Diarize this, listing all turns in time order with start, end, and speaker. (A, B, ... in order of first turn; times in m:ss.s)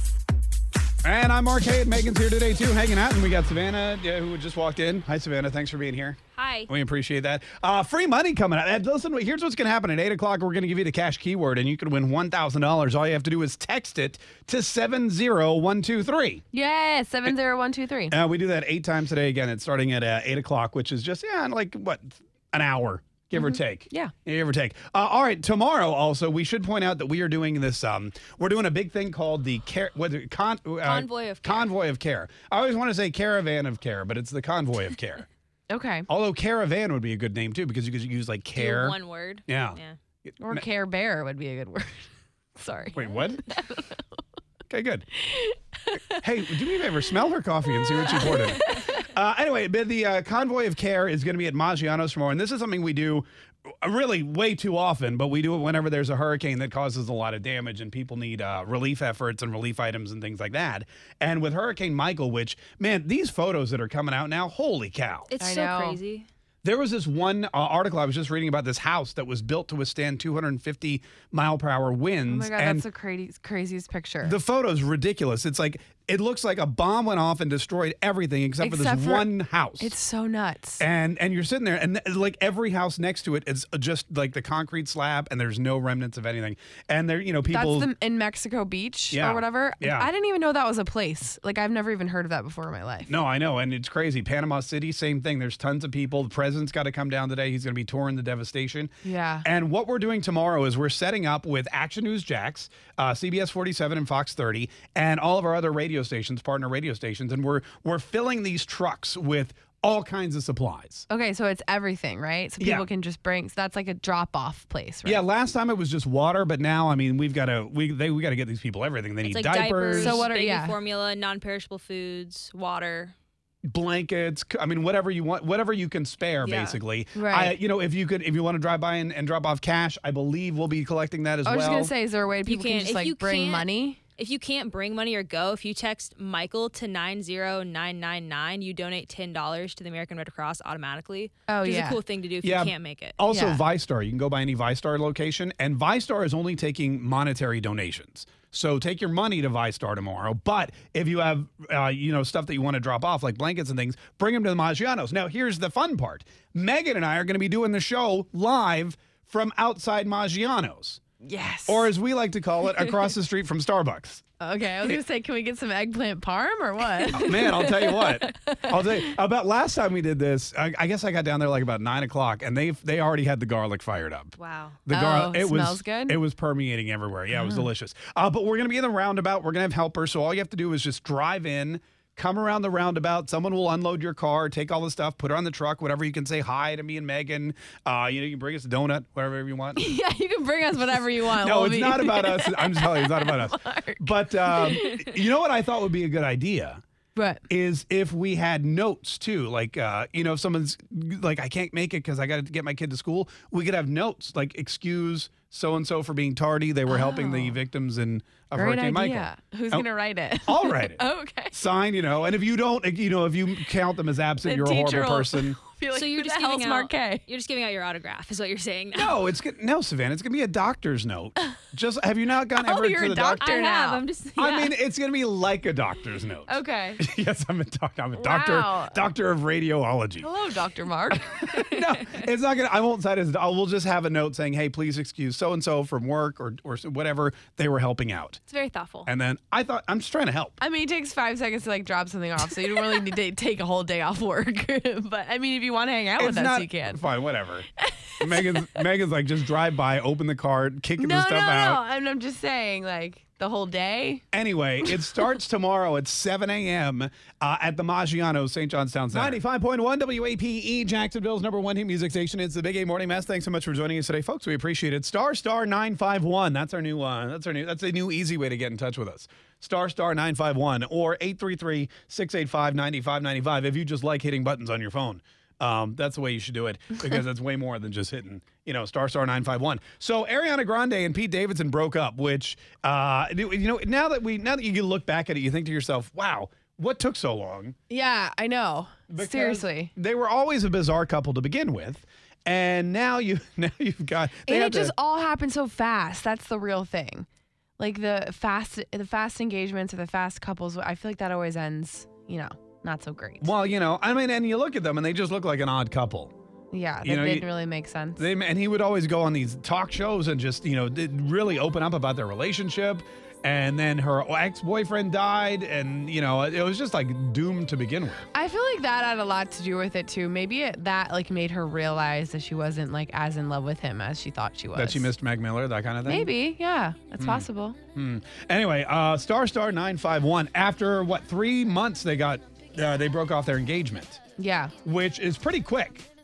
0:01.0-0:16.4 A
0:06.3-0:06.7 B
0:16.5-0:18.1 C
0:18.1-0:35.3 A
0:23.4-0:24.1 C
0:30.8-0:31.7 B
0:35.7-0:36.1 C
0:36.1-0:40.6 A
0:38.5-0:40.0 B
0:40.4-0:44.0 C
0:42.9-0:43.4 A
0:44.7-0:45.0 A
0:45.2-0:46.0 C
0:46.2-0:53.3 A
0:47.9-0:48.9 C
0:53.8-1:05.3 A
1:05.3-1:06.3 B
1:05.4-1:06.0 C
1:06.6-1:12.8 A
1:12.3-1:14.3 C
1:14.2-1:19.9 A
1:18.6-1:20.8 C
1:20.8-1:27.9 A
1:27.5-1:33.1 C
1:29.1-1:30.1 A
1:33.1-1:38.9 A
1:39.0-1:39.4 C
1:39.4-1:51.0 A
1:51.1-1:55.2 C
1:52.6-1:52.8 A
1:55.0-2:00.3 A
1:59.2-2:03.1 B
2:00.0-2:00.8 C
2:03.7-2:11.9 A
2:06.4-2:06.8 B
2:07.1-2:07.6 C
2:11.4-2:14.0 C
2:12.4-2:23.2 B
2:21.5-2:22.0 C
2:22.4-2:41.0 A
2:23.3-2:23.6 C
2:41.2-2:41.9 C
2:41.7-2:44.2 A
2:44.4-2:49.1 C
2:47.1-2:54.3 A
2:54.4-2:54.8 B
2:54.8-3:10.0 A
2:54.9-2:56.2 C
2:57.4-2:57.6 C
3:09.8-3:15.0 C
3:11.3-3:16.8 A
3:17.2-3:17.4 C
3:17.5-3:29.8 A
3:26.9-3:27.6 C
3:28.5-3:31.5 C
3:30.4-3:35.6 A
3:34.4-3:37.2 C
3:35.9-3:39.2 B
3:38.9-3:43.5 A
3:42.6-3:44.0 C
3:43.4-3:44.8 B
3:44.4-3:50.2 A
3:46.5-3:47.0 C
3:48.2-3:49.0 C
3:50.2-3:51.2 C
3:51.1-3:58.4 A
3:51.6-3:52.2 B
3:58.5-3:59.1 C
3:59.0-4:00.6 A
4:00.6-4:07.0 C
4:06.2-4:07.7 A
4:07.8-4:08.8 C
4:08.2-4:11.8 A
4:11.0-4:14.2 C
4:14.3-4:47.7 A
4:14.8-4:15.3 C
4:47.9-4:49.9 C
4:49.1-4:54.9 A
4:54.4-4:57.3 C
4:57.8-5:03.5 C
5:03.4-5:06.3 A
5:06.7-5:08.2 C
5:07.0-5:07.5 A
5:08.2-5:18.2 A
5:18.3-5:25.1 C
5:24.7-5:26.3 A
5:26.0-5:27.8 C
5:27.2-5:34.2 A
5:34.4-5:34.7 C
5:34.8-5:36.1 A